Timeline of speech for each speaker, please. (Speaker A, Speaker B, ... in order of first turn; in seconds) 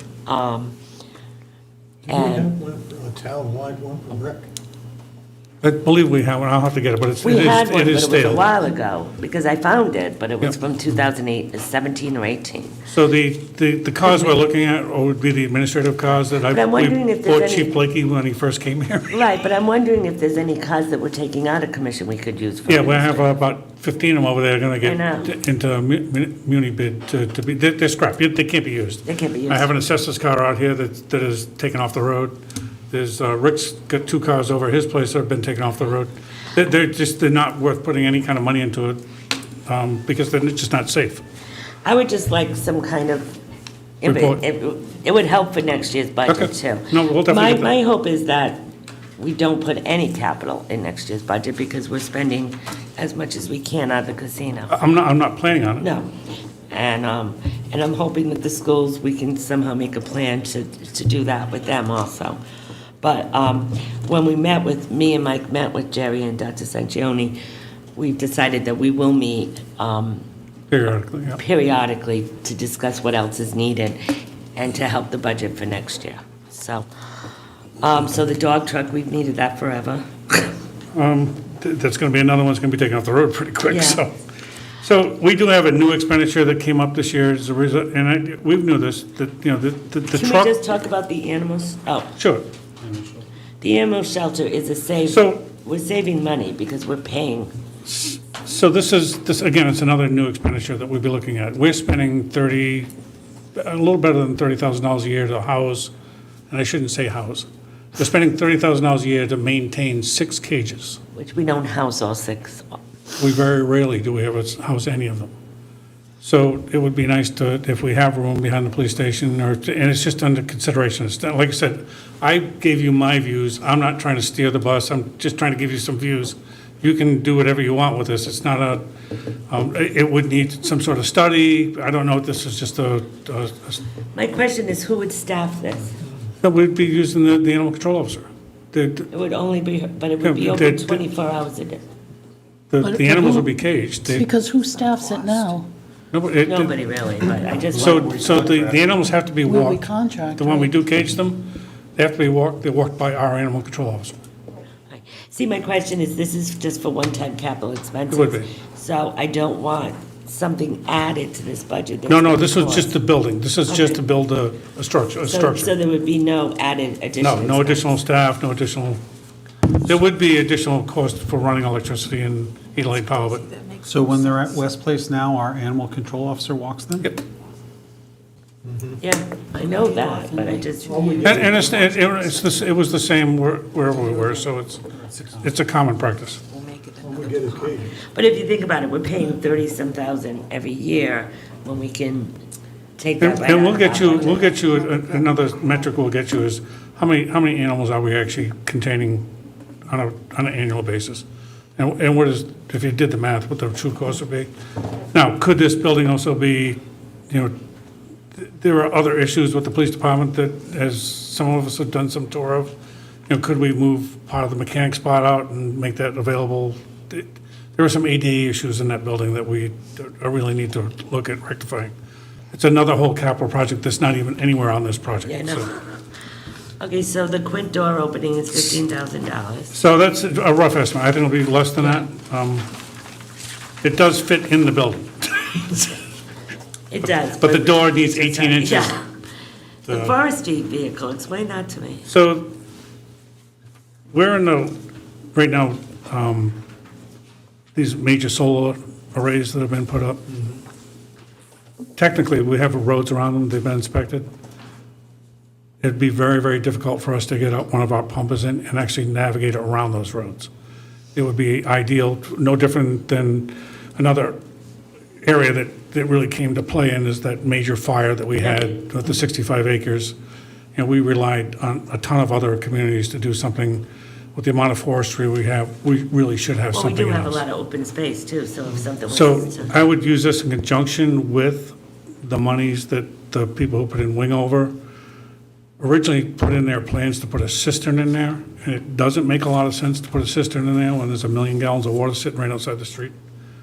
Speaker A: 0.2-0.8, 2.1-2.5, 7.2-12.8, 14.0-14.4, 16.4-17.7, 19.1-23.4, 24.8-25.3, 29.1-29.7, 41.8-43.3, 44.0-48.6, 49.2-54.7, 55.8-56.1, 56.7-62.4, 63.0-67.4, 67.9-70.2, 71.3-76.9, 77.8-80.5, 83.7-84.0, 90.1-92.1, 93.6-97.5, 111.1-112.7, 134.1-136.0, 139.1-141.8, 146.4-148.6, 154.9-162.9, 163.7-164.0, 165.2-167.9, 179.0-181.5, 188.0-192.3, 193.0-194.5, 225.2-225.8, 226.8-229.7, 236.9-239.0, 239.9-242.0, 268.4-268.7, 276.7-279.8
Speaker B: 2.1-4.5, 178.6-179.0, 180.8-181.8, 187.0-187.9
Speaker C: 5.6-8.5, 12.9-19.2, 22.7-32.4, 32.9-39.0, 39.7-41.2, 44.0-44.4, 46.3-47.8, 54.7-55.9, 70.7-71.4, 80.9-84.1, 84.8-90.5, 92.2-93.0, 95.1-95.4, 97.8-102.9, 103.5-105.9, 106.5-111.0, 113.2-115.3, 116.2-128.8, 129.5-133.8, 136.4-139.1, 140.2-141.0, 142.7-144.3, 146.1-146.7, 147.7-154.2, 158.1-158.5, 162.1-165.7, 167.2-169.0, 169.7-173.5, 181.2-184.8, 185.4-186.4, 193.2-199.2, 199.9-201.2, 201.8-204.5, 205.1-207.5, 208.3-212.7, 213.3-221.9, 222.5-225.7, 229.7-232.7, 233.8-236.0, 237.3-238.9, 239.9-240.2, 242.1-242.5, 244.1-244.8, 245.3-246.6, 247.7-250.3, 251.9-254.3, 255.8-260.5, 261.1-264.4, 265.2-270.1, 270.8-277.4, 279.1-284.7, 285.8-293.1
Speaker D: 142.8-143.5, 144.0-145.7, 149.4-150.7, 173.6-174.4, 179.7-182.2
Speaker E: 147.8-148.7, 173.8-177.1, 184.9-185.5